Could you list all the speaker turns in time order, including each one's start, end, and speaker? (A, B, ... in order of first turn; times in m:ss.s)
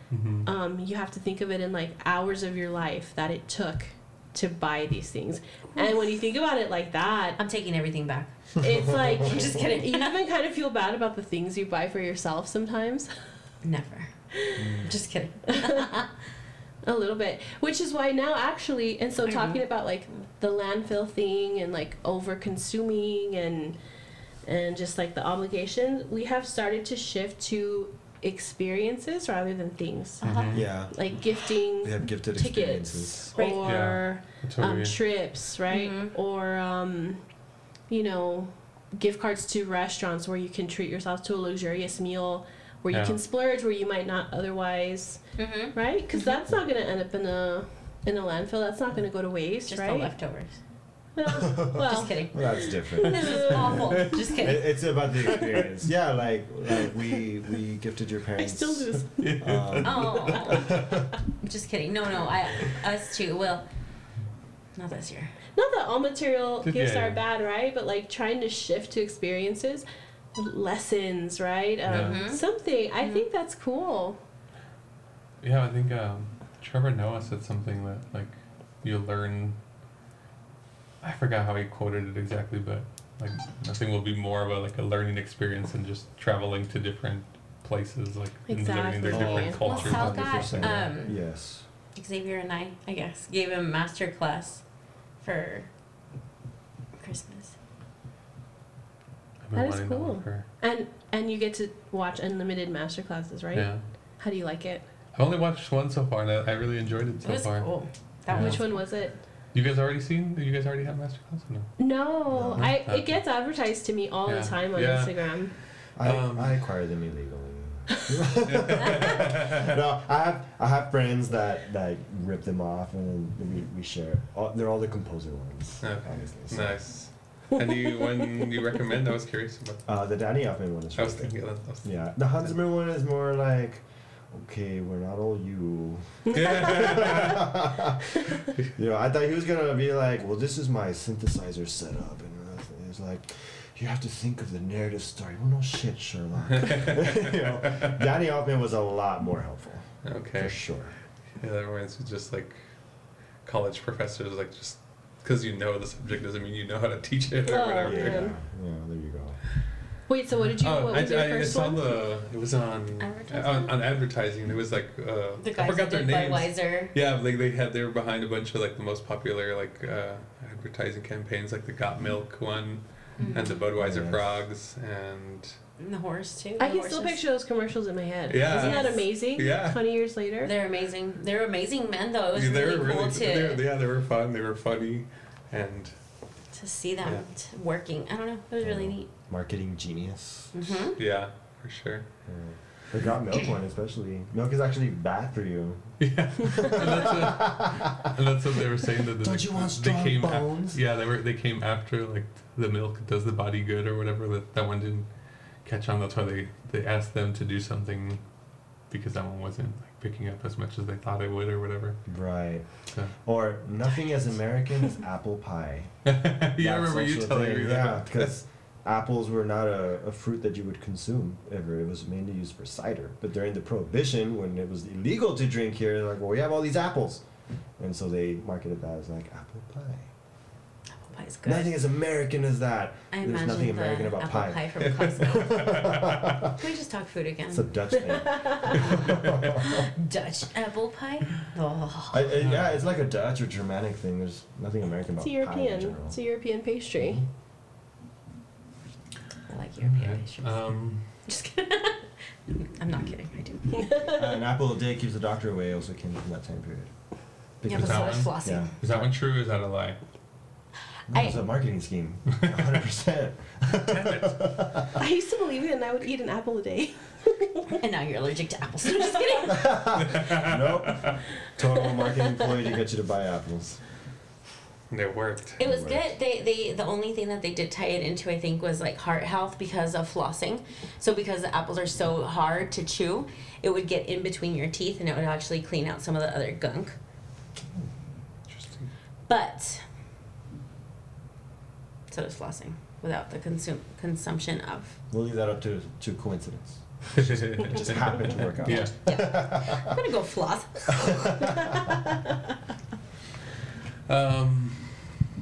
0:00.1-0:00.5 A
0:00.4-0:07.4 B
0:07.4-0:08.3 C
0:08.6-0:13.1 B
0:08.6-0:09.2 D
0:09.1-0:10.2 C
0:13.6-0:14.1 C
0:14.4-0:14.7 B
0:14.6-0:14.9 D
0:14.8-0:16.1 C
0:15.5-0:15.9 B
0:16.8-0:23.8 B
0:19.3-0:19.6 C
0:24.4-0:30.2 B
0:30.2-0:30.6 C
0:30.2-0:30.7 A
0:30.5-0:31.1 D
0:30.9-0:37.2 B
0:31.8-0:33.4 D
0:33.4-0:33.6 C
0:33.6-0:35.0 A
0:35.7-0:36.1 C
0:37.9-0:45.2 B
0:42.9-0:43.2 A
0:45.4-0:45.8 C
0:45.7-0:50.1 B
0:49.7-0:50.6 C
0:51.2-0:54.2 B
0:51.3-0:53.8 D
0:51.8-0:54.8 C
0:54.0-0:54.2 A
0:54.4-1:01.1 D
0:58.4-0:59.4 B
0:59.2-1:00.7 A
0:59.8-1:00.8 C
1:01.4-1:03.7 C
1:04.8-1:05.3 C
1:05.6-1:14.2 B
1:06.6-1:07.2 A
1:11.9-1:12.2 A
1:11.9-1:12.4 C
1:15.4-1:19.6 A
1:21.0-1:30.7 A
1:28.5-1:29.6 B
1:29.1-1:31.6 D
1:29.6-1:31.2 C
1:32.0-1:34.6 C
1:35.2-1:35.7 C
1:37.0-1:37.6 C
1:39.4-1:40.5 A
1:39.6-1:44.8 B
1:43.5-1:43.8 A
1:45.2-1:47.7 A
1:47.2-1:48.8 C
1:48.3-1:48.6 A
1:48.3-1:49.2 B
1:49.5-1:51.7 A
1:51.8-1:55.5 B
1:52.3-1:52.8 D
1:52.6-1:53.2 A
1:54.3-1:55.2 A
1:56.0-2:06.8 D
1:56.0-1:56.5 A
1:58.4-1:59.8 A
2:05.8-2:09.9 A
2:09.9-2:11.3 D
2:11.0-2:12.5 A
2:11.8-2:18.2 D
2:16.3-2:17.5 A
2:18.8-2:30.9 D
2:26.5-2:28.1 A
2:30.0-2:30.6 A
2:31.4-2:32.6 A
2:33.4-2:38.3 A
2:37.5-2:38.3 B
2:37.8-2:39.4 D
2:40.1-2:42.0 B
2:40.4-2:55.6 A
2:43.0-2:43.8 C
2:45.4-2:46.9 C
2:53.2-2:53.6 C
2:53.8-2:54.4 D
2:55.8-2:57.2 C
2:56.6-3:00.5 B
2:58.3-2:59.8 A
2:58.5-2:59.0 C
3:00.4-3:03.6 C
3:02.3-3:05.9 A
3:06.5-3:09.1 C
3:08.6-3:10.5 D
3:10.5-3:11.0 C
3:11.0-3:12.1 A
3:12.3-3:15.9 D
3:16.0-3:25.1 A
3:16.4-3:18.1 D
3:19.2-3:20.8 D
3:25.6-3:28.2 A
3:28.9-3:32.0 A
3:32.1-3:32.7 D
3:33.2-3:35.9 D
3:36.1-3:38.3 A
3:36.6-3:47.2 D
3:47.8-3:50.1 D
3:51.0-3:51.8 C
3:51.4-3:56.6 D
3:53.1-3:55.6 C
3:54.8-3:56.4 A
3:56.4-3:57.7 C
3:57.5-3:59.9 D
3:58.1-3:58.8 B
3:59.6-4:02.3 C
4:02.1-4:06.2 D
4:02.4-4:02.8 A
4:05.2-4:07.2 B
4:07.0-4:07.3 D
4:09.5-4:10.6 C
4:09.8-4:11.0 A
4:11.2-4:14.0 C
4:13.8-4:14.4 B
4:14.1-4:16.9 D
4:17.6-4:19.1 D
4:17.6-4:18.7 C
4:17.7-4:20.0 A
4:21.1-4:25.0 D
4:21.1-4:21.4 C
4:23.9-4:24.4 A
4:25.0-4:27.8 B
4:27.8-4:29.7 C
4:29.2-4:29.4 B
4:29.5-4:33.8 D
4:30.0-4:31.2 A
4:34.9-4:35.6 A
4:35.6-4:47.0 C
4:35.6-4:36.0 D
4:48.5-4:48.9 A
4:49.3-4:49.8 C
4:52.1-4:55.0 C
4:55.1-5:00.0 D
4:57.2-4:58.9 A
4:58.7-5:01.2 C
5:00.9-5:02.0 D
5:04.1-5:05.1 A